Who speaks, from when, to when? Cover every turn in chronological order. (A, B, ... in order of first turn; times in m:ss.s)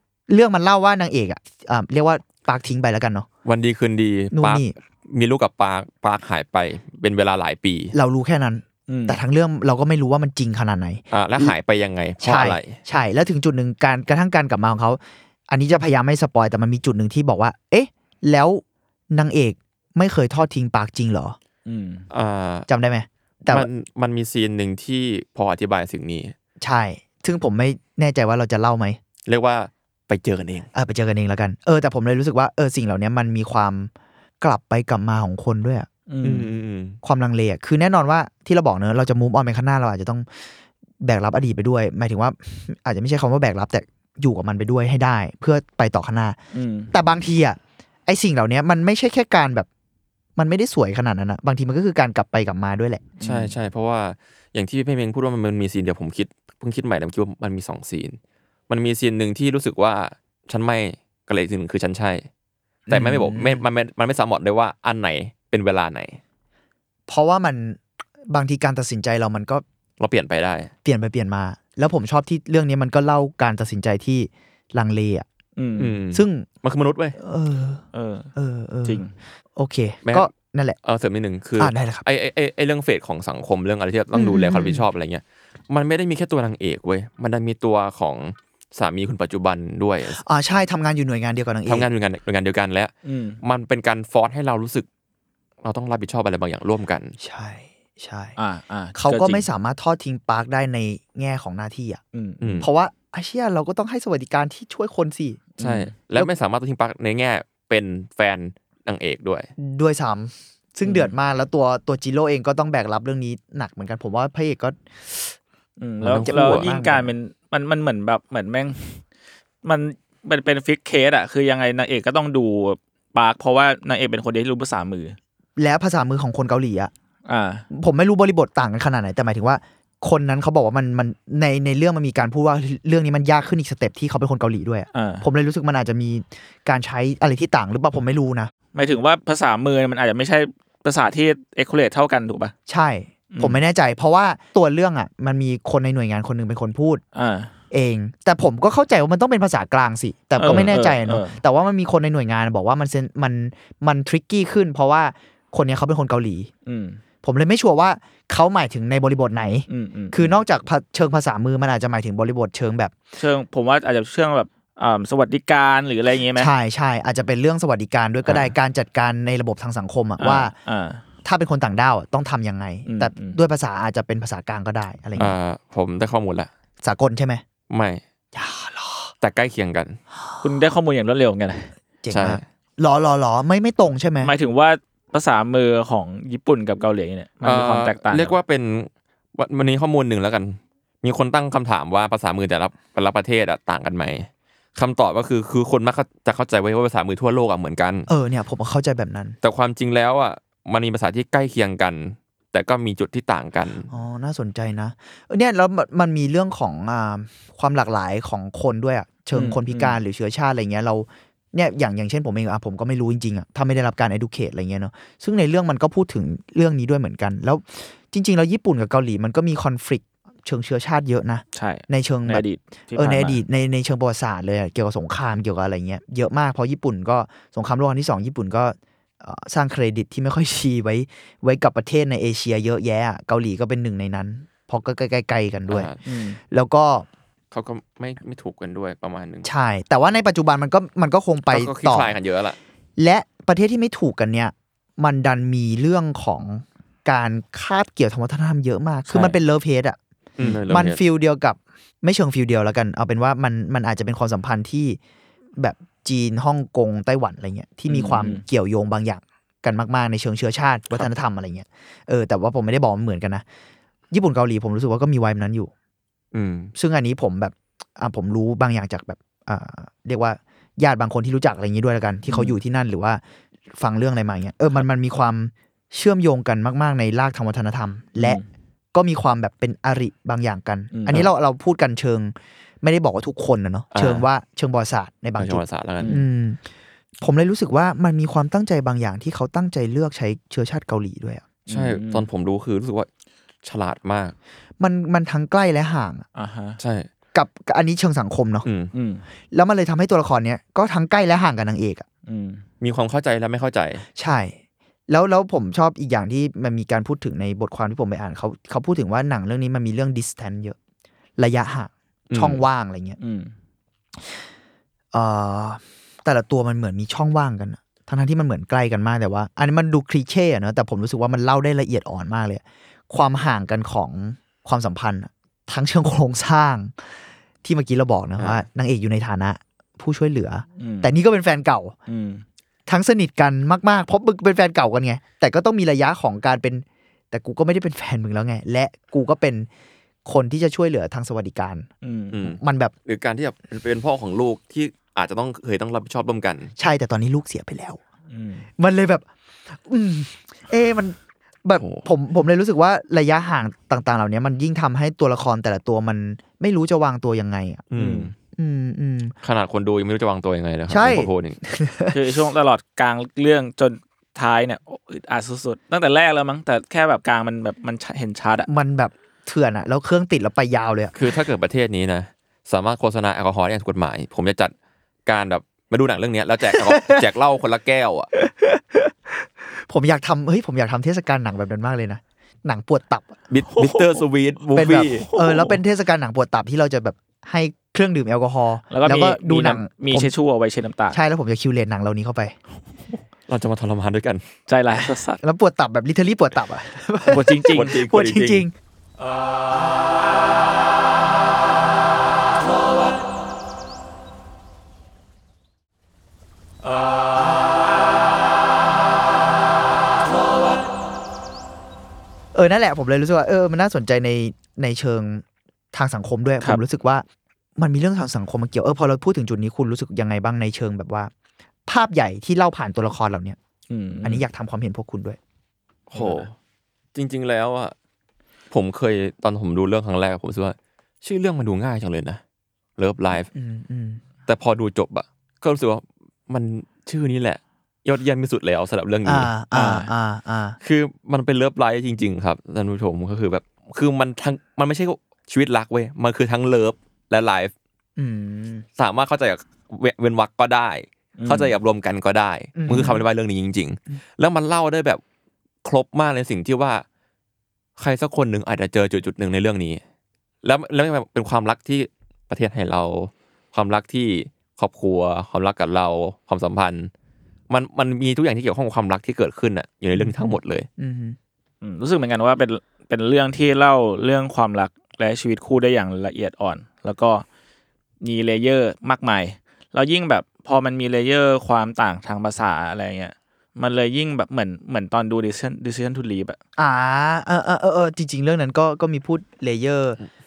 0:00.3-0:03.3 A
0:03.4-0:07.9 B
0:04.3-0:04.7 A
0:07.9-0:11.6 A
0:08.9-0:09.2 C
0:11.1-0:12.8 B
0:12.2-0:21.4 A
0:21.7-0:22.1 C
0:22.1-0:22.7 B
0:22.7-0:23.7 A
0:23.5-0:26.3 B
0:26.6-0:29.0 A
0:29.3-0:30.7 B
0:30.7-0:35.9 A
0:36.1-0:36.5 C
0:36.2-0:37.0 B
0:37.0-0:40.3 A
0:41.0-0:46.4 A
0:46.5-0:46.9 C
0:46.9-0:49.7 A
0:50.4-0:53.1 A
0:53.2-0:53.6 C
0:53.2-0:58.2 B
0:58.7-1:02.3 B
1:02.9-1:03.6 A
1:02.9-1:06.2 B
1:07.1-1:09.6 A
1:10.0-1:10.7 B
1:10.8-1:15.3 A
1:15.6-1:16.0 C
1:15.8-1:17.2 B
1:16.1-1:16.5 A
1:17.2-1:17.8 A
1:17.9-1:18.3 C
1:18.4-1:19.0 A
1:18.8-1:19.1 C
1:19.6-1:20.8 A
1:20.0-1:20.3 B
1:20.8-1:30.2 B
1:21.6-1:22.0 A
1:24.1-1:24.8 A
1:30.1-1:31.9 A
1:31.7-1:34.9 B
1:33.0-1:33.4 C
1:35.6-1:37.1 B
1:37.2-1:38.4 A
1:38.4-1:39.4 C
1:39.0-1:42.0 A
1:42.1-1:42.6 C
1:42.4-1:42.7 B
1:42.6-1:45.5 A
1:45.6-1:45.9 C
1:45.6-1:49.5 B
1:49.6-1:55.4 A
1:50.8-1:51.1 C
1:55.8-1:59.0 C
1:56.0-1:56.7 B
1:56.3-1:57.1 A
1:59.6-2:05.2 C
2:05.6-2:06.9 A
2:07.3-2:07.7 C
2:07.7-2:18.5 A
2:14.9-2:15.3 C
2:18.7-2:22.5 C
2:22.7-2:27.0 A
2:23.3-2:23.6 C
2:27.1-2:27.5 C
2:27.7-2:36.5 A
2:30.4-2:31.4 C
2:36.7-2:37.0 C
2:37.2-2:43.0 A
2:39.7-2:40.3 C
2:43.2-2:46.5 C
2:46.4-2:50.5 A
2:50.2-2:51.0 C
2:51.2-2:55.4 A
2:52.9-2:53.4 C
2:55.2-2:56.5 B
2:56.8-2:57.4 A
2:57.7-2:58.0 B
2:58.3-2:59.1 A
2:59.2-3:00.0 B
3:00.4-3:01.7 C
3:02.0-3:04.3 A
3:02.1-3:02.4 B
3:04.2-3:08.4 C
3:07.4-3:18.1 B
3:18.1-3:19.4 A
3:19.4-3:23.9 B
3:23.9-3:42.4 A
3:29.3-3:30.0 C
3:41.5-3:43.4 C
3:43.0-3:55.9 A
3:55.7-3:56.0 B
3:56.0-3:56.4 C
3:56.4-3:57.1 A
3:57.5-3:59.5 B
3:59.4-4:02.2 A
4:01.5-4:02.6 B
4:03.0-4:10.0 A
4:10.4-4:11.0 B
4:10.7-4:15.0 A
4:15.6-4:23.4 A
4:17.9-4:18.4 C
4:24.1-4:25.7 A
4:26.3-4:26.7 B
4:26.7-4:33.2 A
4:32.3-4:32.6 C
4:33.7-4:38.4 A
4:38.2-4:38.5 C
4:38.9-4:46.6 A
4:40.9-4:41.3 C
4:43.9-4:44.3 B
4:45.4-4:46.2 B
4:47.2-4:51.4 A
4:51.7-4:52.2 C
4:51.7-4:53.1 B
4:53.6-4:54.4 B
4:54.8-4:56.2 A
4:56.4-4:56.8 C
4:56.8-4:57.1 B
4:57.3-4:58.7 A
4:58.6-4:58.9 B
4:58.9-4:59.2 C
4:59.5-5:02.1 A
5:02.3-5:02.6 C
5:02.8-5:04.1 B
5:04.2-5:04.6 A
5:05.1-5:10.8 A
5:11.4-5:13.2 A
5:12.3-5:12.6 B
5:13.2-5:13.5 C
5:15.1-5:27.0 A
5:27.6-5:32.0 A
5:28.4-5:28.6 B
5:30.8-5:31.1 C
5:32.1-5:32.4 C
5:32.9-5:39.7 A
5:40.2-5:41.9 A
5:42.0-5:42.4 C
5:42.3-5:46.7 B
5:42.4-5:42.9 A
5:46.8-5:48.0 A
5:48.3-5:48.7 C
5:48.8-5:57.9 A
5:51.8-5:52.1 B
5:57.9-5:58.3 B
5:58.0-5:58.3 C
5:58.6-5:59.4 A
5:59.4-6:01.6 B
6:00.9-6:02.2 A
6:02.1-6:08.7 C
6:08.7-6:11.1 A
6:11.1-6:14.7 B
6:15.3-6:18.3 B
6:16.7-6:17.2 A
6:18.4-6:23.4 A
6:23.5-6:25.3 B
6:23.7-6:24.2 C
6:24.7-6:30.3 A
6:25.2-6:25.7 C
6:28.9-6:31.2 C
6:31.1-6:32.6 A
6:33.5-6:34.4 B
6:34.7-6:35.4 C
6:35.4-6:38.7 A
6:37.3-6:38.0 C
6:37.7-6:38.6 B
6:52.5-6:57.2 A
6:57.8-7:01.3 A
7:01.9-7:03.6 A
7:03.9-7:04.4 C
7:04.2-7:05.4 A
7:06.1-7:06.5 B
7:06.1-7:06.5 C
7:07.1-7:07.9 B
7:08.7-7:12.4 B
7:13.0-7:13.5 B
7:13.5-7:14.2 A
7:14.5-7:19.5 B
7:19.2-7:20.8 A
7:19.7-7:20.1 C
7:20.8-7:27.7 B
7:28.2-7:28.9 A
7:29.0-7:35.2 B
7:31.4-7:31.7 C
7:32.8-7:33.2 A
7:35.8-7:37.0 B
7:38.0-7:40.0 B
7:40.6-7:47.1 B
7:47.7-7:50.9 B
7:50.1-7:51.4 A
7:51.8-7:57.4 C
7:58.2-8:06.6 C
8:06.8-8:10.2 A